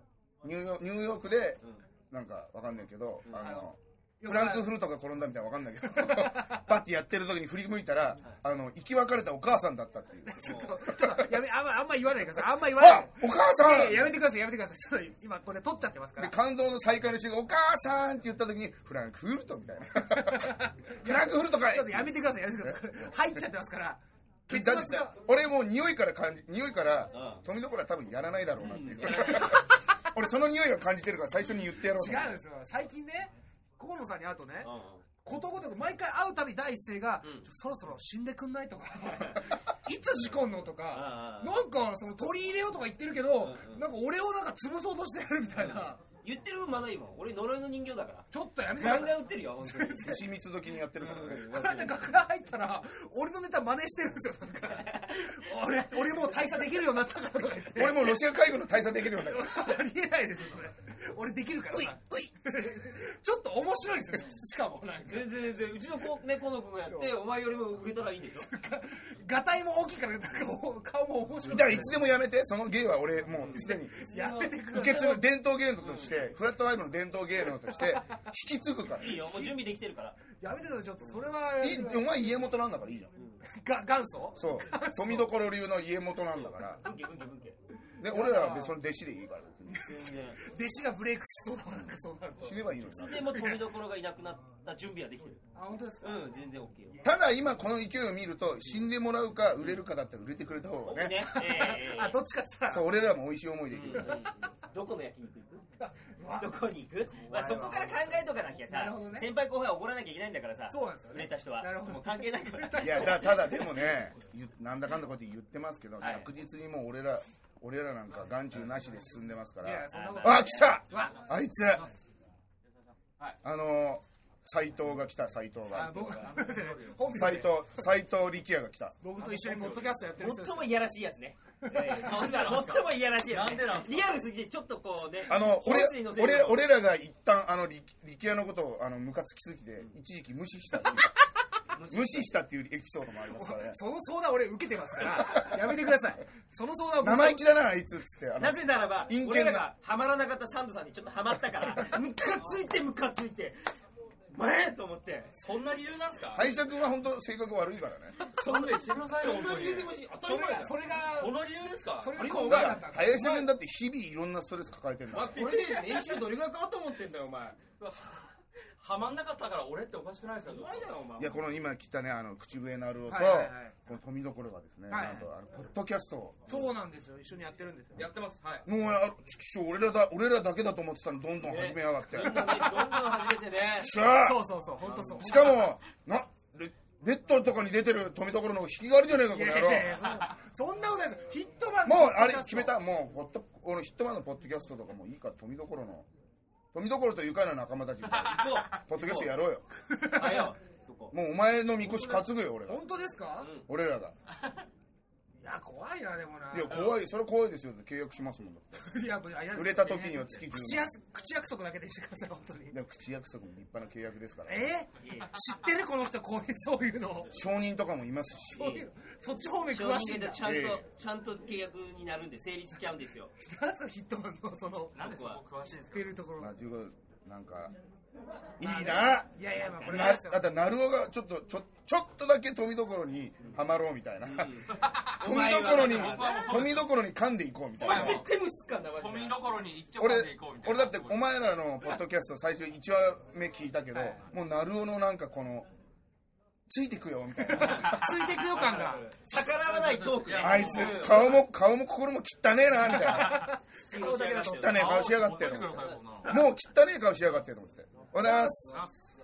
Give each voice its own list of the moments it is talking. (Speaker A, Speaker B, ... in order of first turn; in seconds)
Speaker A: 0.4-1.6, 2.1-11.2, 12.6-14.2, 16.2-23.4, 24.5-32.4, 50.0-51.5, 57.7-59.7, 61.7-62.3, 71.4-74.0, 74.7-79.2, 81.5-83.1, 84.3-86.8, 88.0-89.9, 92.4-93.3, 97.0-101.2, 102.7-104.2, 112.8-121.9, 123.4-126.3, 127.1-129.0, 135.3-141.0, 141.9-143.8, 145.0-145.6, 147.0-149.7, 156.3-158.2, 162.2-165.4, 171.2-176.7, 178.7-182.8, 183.8-184.4, 185.2-190.0, 191.8-196.1, 196.7-199.7, 201.1-202.8, 203.7-204.1, 206.5-208.8, 209.5-210.9, 212.7-214.7, 217.3-218.7, 220.4-220.8, 226.4-227.7, 228.6-238.2, 239.9-245.7, 246.7-247.9, 250.4-253.5, 254.5-258.8
Speaker B: 3.4-4.7, 5.8-6.7, 10.2-16.3, 20.1-25.2, 29.2-29.6, 31.9-34.7, 35.2-46.0, 48.3-50.2, 51.4-58.2, 59.1-65.3, 66.9-67.2, 68.4-72.1, 73.5-75.2, 77.6-78.2, 79.0-79.6, 80.4-82.5, 83.4-85.3, 88.0-88.7, 89.7-92.7, 93.2-93.6, 95.5-96.3, 96.9-97.1, 101.2-102.9, 105.8-109.3, 110.7-113.9, 119.6-121.2, 125.7-127.8, 129.0-130.7, 131.7-132.6, 143.3-147.4, 158.2-158.4, 160.2-161.4, 162.0-163.5, 173.1-173.8, 174.9-175.3, 176.5-178.1, 182.2-182.8, 183.8-185.8, 189.3-192.8, 199.9-200.5, 201.8-203.5, 205.4-206.9, 208.8-212.8, 214.4-217.3, 218.5-220.4, 223.4-225.0, 225.9-226.5, 228.6-230.5, 243.9-244.3, 247.4-249.4, 252.8-254.8, 258.2-258.8
Speaker C: 10.4-10.9, 27.1-27.4, 28.6-29.6, 34.6-35.0, 39.0-39.5, 40.2-41.6, 43.3-43.9, 45.5-50.2, 51.0-52.1, 65.0-68.5, 73.4-74.7, 75.8-76.3, 79.0-80.2, 81.0-81.3, 83.2-83.4, 86.3-87.6, 89.8-90.4, 92.8-95.4, 96.0-97.0, 99.6-99.8, 100.8-102.2, 103.7-105.6, 106.3-113.5, 116.0-116.3, 119.9-120.5, 130.2-136.6, 141.7-142.3, 148.3-153.6, 154.3-155.3, 158.3-160.8, 162.2-162.8, 165.1-168.2, 170.4-171.4, 181.4-183.9, 184.8-185.5, 198.3-199.3, 200.1-201.1, 203.4-203.7, 206.7-206.9, 215.0-215.3, 218.5-218.9, 219.4-223.3, 225.0-225.4, 229.6-230.0, 234.2-236.5, 237.8-239.7, 248.4-251.4, 253.8-255.2
Speaker D: 126.0-127.4, 129.2-130.0, 132.0-134.2, 155.3-156.5, 158.4-159.9, 161.0-162.7, 165.1-166.2, 168.8-170.8, 178.0-178.6, 198.2-198.6, 224.9-226.1, 234.7-236.9, 237.8-238.3, 238.9-241.3, 247.7-248.4, 249.7-251.1, 254.7-256.4